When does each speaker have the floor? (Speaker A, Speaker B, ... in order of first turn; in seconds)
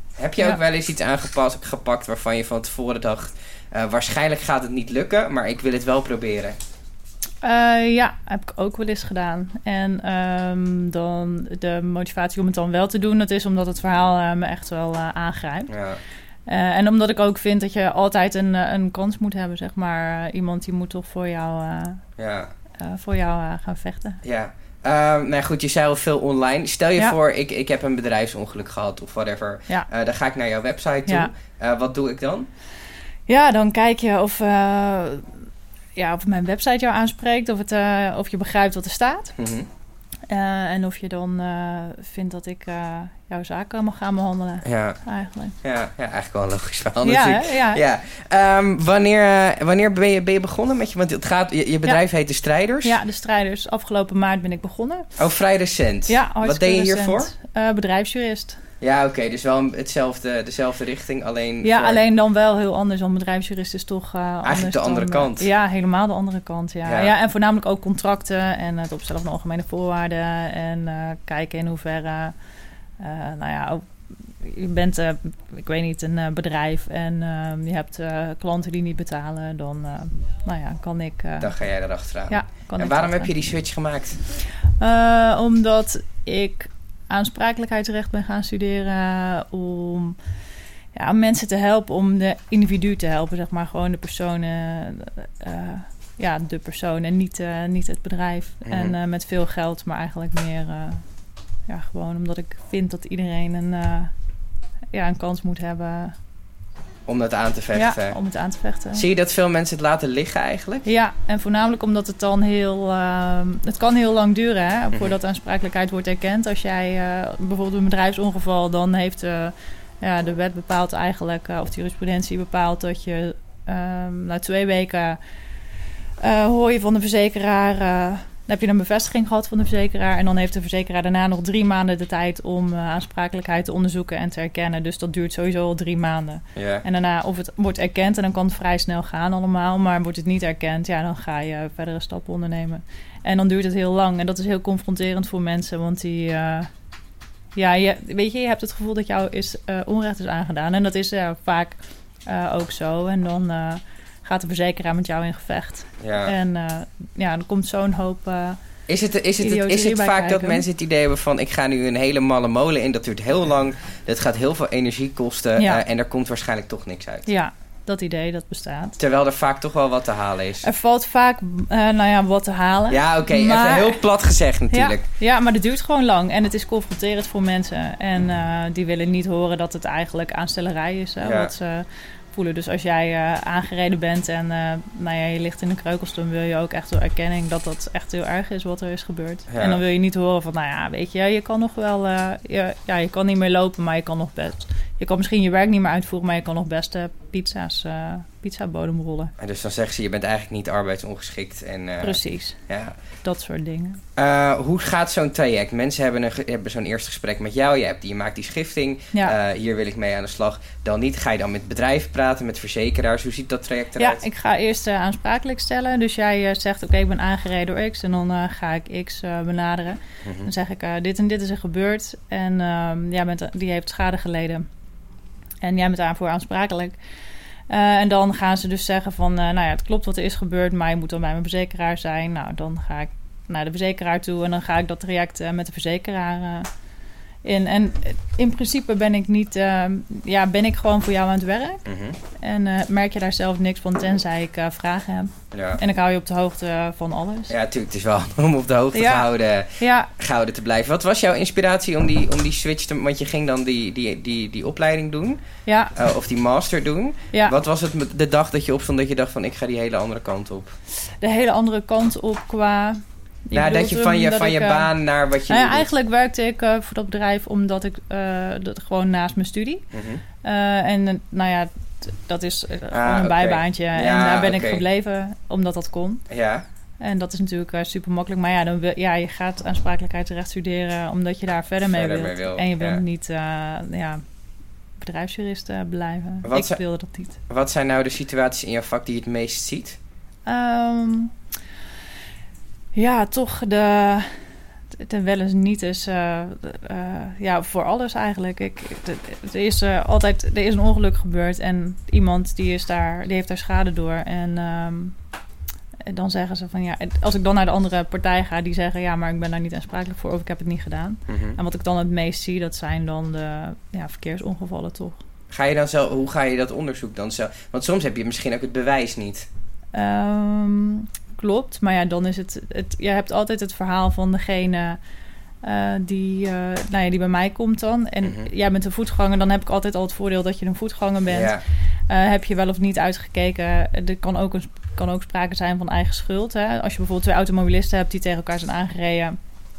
Speaker A: 0.2-6.6, 15.7-16.0, 22.2-22.5, 24.2-32.5, 39.4-39.7, 44.6-45.0, 45.6-53.0, 55.2-57.3, 58.8-62.0, 64.4-65.5, 66.8-67.1, 81.4-84.2, 98.7-99.0, 107.1-108.2, 108.9-110.9, 136.5-136.8, 156.0-156.3, 158.9-167.3, 169.0-170.7, 172.9-175.0, 181.2-181.5, 189.5-189.8, 199.4-203.0, 204.2-214.2, 220.2-220.5, 241.8-242.2, 245.5-245.8, 247.5-255.4, 255.9-260.7, 263.5-265.9, 269.9-270.2, 272.9-274.8, 276.3-276.6, 281.9-283.0, 286.4-286.8, 287.5-290.0, 311.3-311.6, 315.5-319.5, 328.2-328.5, 331.3-331.6
Speaker B: 7.4-15.7, 16.5-22.0, 22.8-24.2, 31.1-31.3, 33.3-35.3, 36.0-39.3, 40.3-45.5, 47.0-47.8, 52.8-55.1, 56.1-58.6, 61.6-72.3, 73.0-73.8, 74.4-81.5, 82.3-83.3, 84.8-90.2, 90.9-101.0, 101.7-104.1, 104.9-106.1, 107.7-109.0, 110.8-125.2, 126.2-146.7, 147.5-158.6, 159.4-160.7, 165.6-165.8, 167.3-169.0, 170.6-174.0, 174.7-199.3, 202.0-202.6, 203.2-204.0, 214.0-224.7, 225.6-227.0, 227.7-236.7, 237.4-241.8, 242.4-247.5, 248.9-250.1, 255.7-255.9, 261.2-264.9, 265.5-269.8, 270.4-276.2, 277.0-284.2, 285.0-287.4, 290.5-291.3, 292.9-294.3, 294.9-305.1, 306.1-315.2, 319.9-325.0, 325.6-339.4